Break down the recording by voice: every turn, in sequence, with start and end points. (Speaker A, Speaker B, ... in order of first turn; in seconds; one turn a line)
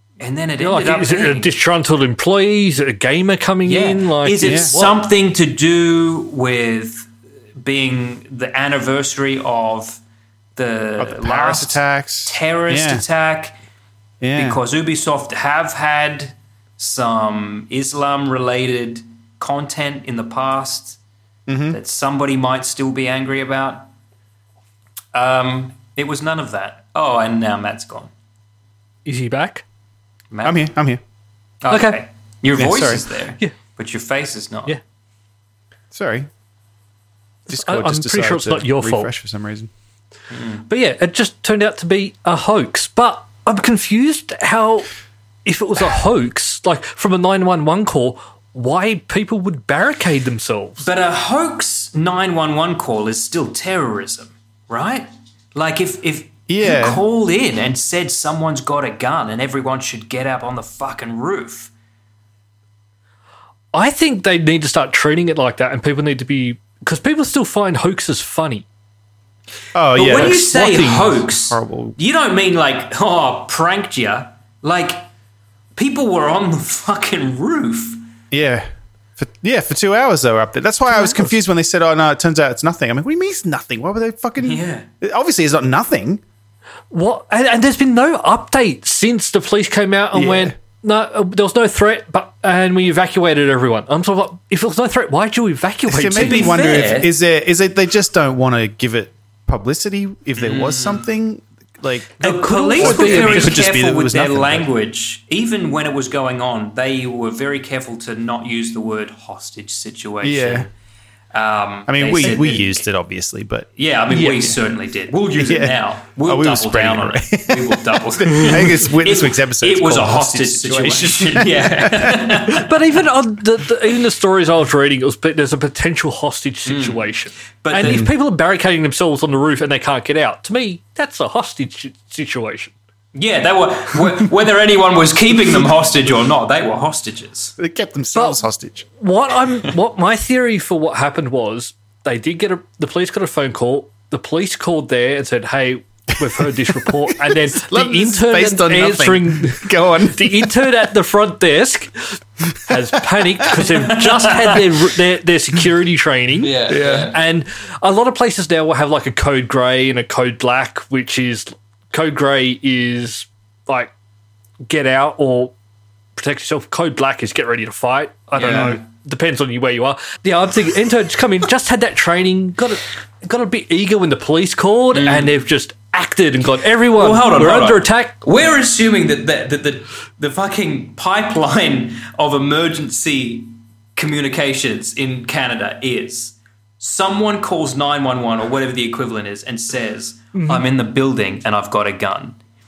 Speaker A: 0.2-1.5
Speaker B: 0.6-5.0
Speaker A: 3.7-10.0
Speaker C: 4.4-4.7
Speaker A: 10.6-13.6
Speaker C: 11.0-13.0
Speaker C: 14.2-14.6
Speaker A: 14.3-21.0
Speaker C: 21.5-21.8
Speaker A: 21.7-23.9
Speaker A: 25.1-28.1
Speaker B: 29.1-29.6
Speaker A: 30.3-30.7
Speaker C: 30.4-31.0
Speaker A: 31.6-34.8
Speaker B: 31.7-32.0
Speaker C: 32.6-33.0
Speaker C: 35.9-36.3
Speaker C: 37.5-39.7
Speaker B: 37.5-39.1
Speaker A: 40.3-40.6
Speaker B: 40.7-44.9
Speaker B: 45.5-50.9
Speaker A: 50.8-61.7
Speaker C: 56.5-57.0
Speaker B: 63.7-68.7
Speaker C: 69.7-70.5
Speaker A: 70.0-75.1
Speaker B: 70.0-71.2
Speaker C: 71.3-72.0
Speaker A: 75.8-78.1
Speaker C: 78.3-86.2
Speaker B: 80.9-81.3
Speaker A: 84.4-84.9
Speaker B: 86.9-96.6
Speaker C: 90.1-90.5
Speaker C: 95.9-102.2
Speaker A: 96.1-97.1
Speaker A: 100.4-101.0
Speaker A: 102.2-110.7
Speaker B: 102.2-103.6
Speaker C: 102.8-104.7
Speaker C: 110.2-110.7
Speaker A: 111.3-112.8
Speaker C: 111.9-113.7
Speaker A: 113.8-122.7
Speaker B: 114.1-114.5
Speaker C: 115.4-122.6
Speaker B: 122.5-132.8
Speaker A: 126.7-127.1
Speaker A: 127.6-128.1
Speaker C: 127.8-128.1
Speaker A: 133.1-137.5
Speaker C: 137.6-138.9
Speaker B: 138.1-138.4
Speaker B: 139.0-156.6
Speaker C: 146.2-150.6
Speaker A: 153.7-154.6
Speaker A: 156.4-157.2
Speaker C: 156.7-157.1
Speaker B: 157.1-163.9
Speaker B: 164.7-165.5
Speaker B: 166.2-178.2
Speaker A: 168.3-168.8
Speaker C: 168.5-168.8
Speaker A: 174.9-175.3
Speaker A: 176.9-192.4
Speaker B: 190.3-190.7